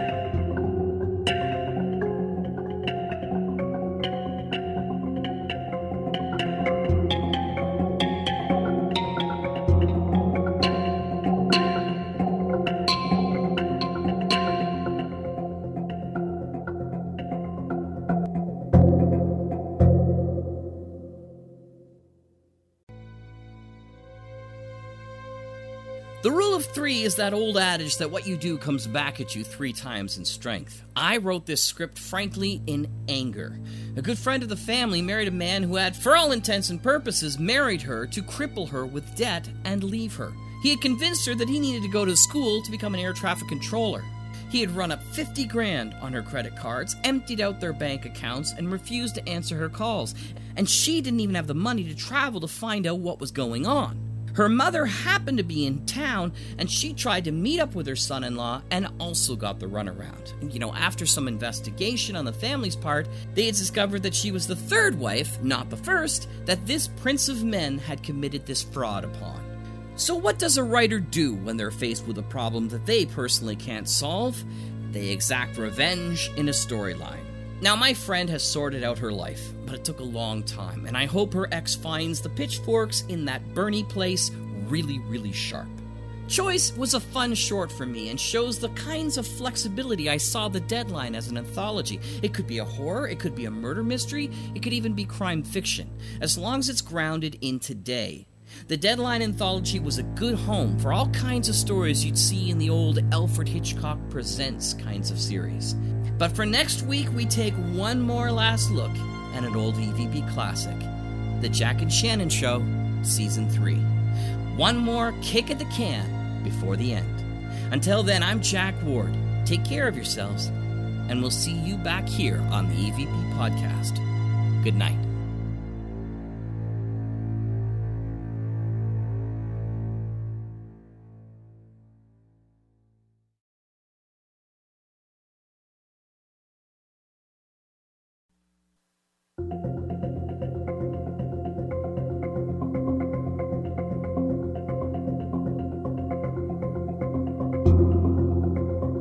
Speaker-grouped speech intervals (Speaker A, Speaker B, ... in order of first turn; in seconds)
Speaker A: 26.2-110.9, 111.4-113.9, 114.5-120.5, 121.1-124.0, 124.6-125.1